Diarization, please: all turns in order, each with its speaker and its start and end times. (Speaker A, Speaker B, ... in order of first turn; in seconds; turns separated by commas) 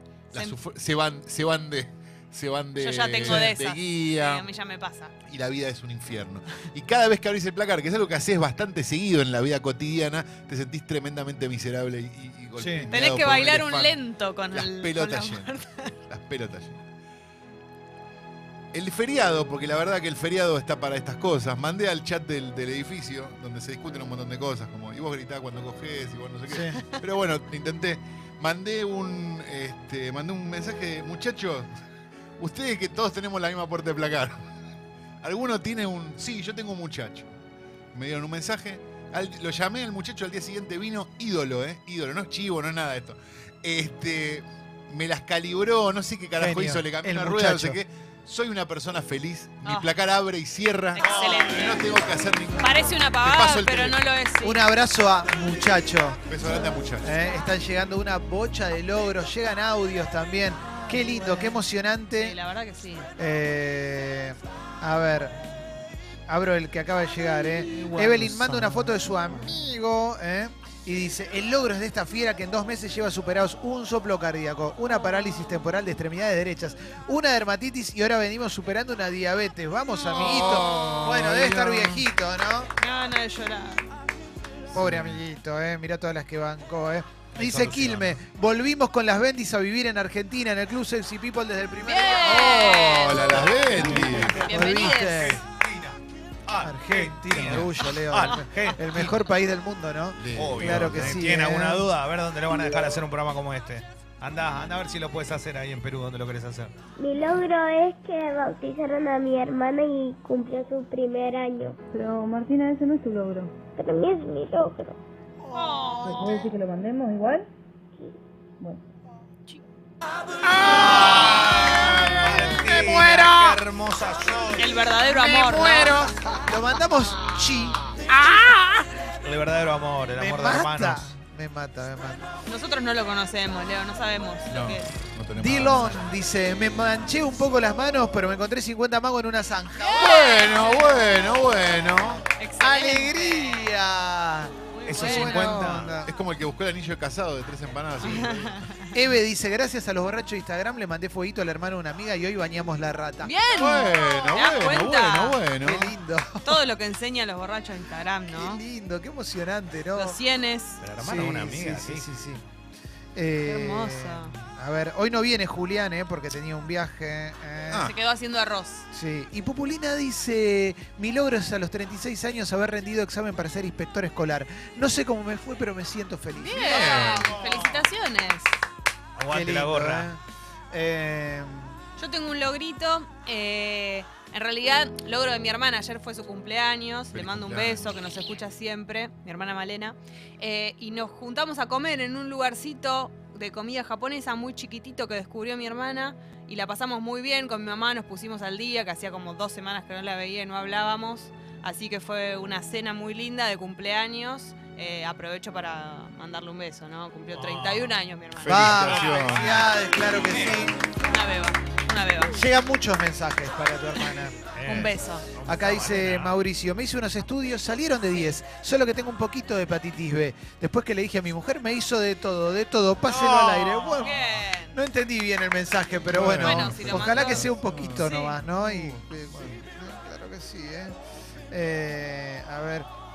Speaker A: 0.3-4.5, Speaker B: 2.8-5.1, Speaker C: 3.2-3.5, Speaker A: 5.3-15.5, Speaker C: 12.6-12.9, Speaker B: 12.9-15.9, Speaker A: 16.1-16.8, Speaker A: 18.7-31.7, Speaker C: 26.5-26.8, Speaker A: 32.4-34.4, Speaker A: 35.2-37.3, Speaker A: 37.9-54.1, Speaker C: 46.4-47.8, Speaker B: 49.6-49.9, Speaker B: 50.9-51.9, Speaker D: 51.0-51.8, Speaker B: 52.6-54.6, Speaker C: 54.4-56.4, Speaker A: 56.3-57.1, Speaker C: 57.0-62.4, Speaker B: 62.1-63.1, Speaker C: 63.2-65.4, Speaker C: 66.3-82.7, Speaker A: 80.1-82.0, Speaker B: 82.8-83.8, Speaker C: 84.7-95.4, Speaker A: 84.7-85.2, Speaker D: 87.3-88.2, Speaker B: 91.8-95.4, Speaker A: 92.5-94.5, Speaker D: 94.7-99.2, Speaker C: 96.6-101.9, Speaker A: 100.2-101.3, Speaker D: 100.4-106.7, Speaker E: 107.0-111.8, Speaker F: 111.9-113.5, Speaker E: 113.8-115.0, Speaker C: 115.4-116.2, Speaker B: 115.5-116.5, Speaker F: 116.0-117.4, Speaker D: 120.7-124.8, Speaker C: 122.2-123.5, Speaker B: 124.5-126.0, Speaker C: 125.1-128.6, Speaker D: 129.2-131.1, Speaker C: 130.2-132.2, Speaker B: 132.4-134.9, Speaker A: 134.5-136.1, Speaker C: 135.4-141.1, Speaker A: 139.9-142.2, Speaker B: 140.0-140.7, Speaker B: 142.4-143.7, Speaker C: 142.6-146.1, Speaker B: 144.7-145.7, Speaker D: 144.8-145.9, Speaker A: 146.0-148.6, Speaker B: 148.0-148.8, Speaker C: 148.9-153.3, Speaker B: 153.2-155.4, Speaker A: 153.5-155.9, Speaker C: 155.6-156.6, Speaker B: 156.4-158.6, Speaker C: 158.3-160.2, Speaker B: 159.9-160.8, Speaker D: 160.8-162.0, Speaker C: 161.0-162.4, Speaker C: 163.1-167.9, Speaker B: 163.4-164.3, Speaker A: 167.7-167.9, Speaker B: 167.7-168.8, Speaker C: 168.9-176.9, Speaker B: 176.4-178.6, Speaker A: 176.6-177.2, Speaker D: 176.8-177.8, Speaker D: 179.2-180.1, Speaker C: 179.3-181.8, Speaker B: 182.0-209.1, Speaker A: 187.1-188.0, Speaker D: 207.3-208.0, Speaker A: 208.4-209.7, Speaker C: 208.5-210.8, Speaker D: 208.8-210.7, Speaker B: 211.0-212.4, Speaker C: 212.3-214.4, Speaker D: 214.5-216.4, Speaker B: 214.6-215.3, Speaker C: 215.4-224.2, Speaker D: 223.1-224.2, Speaker B: 223.3-224.8, Speaker C: 224.7-230.9, Speaker A: 226.1-229.5, Speaker B: 226.4-228.4, Speaker C: 231.5-232.9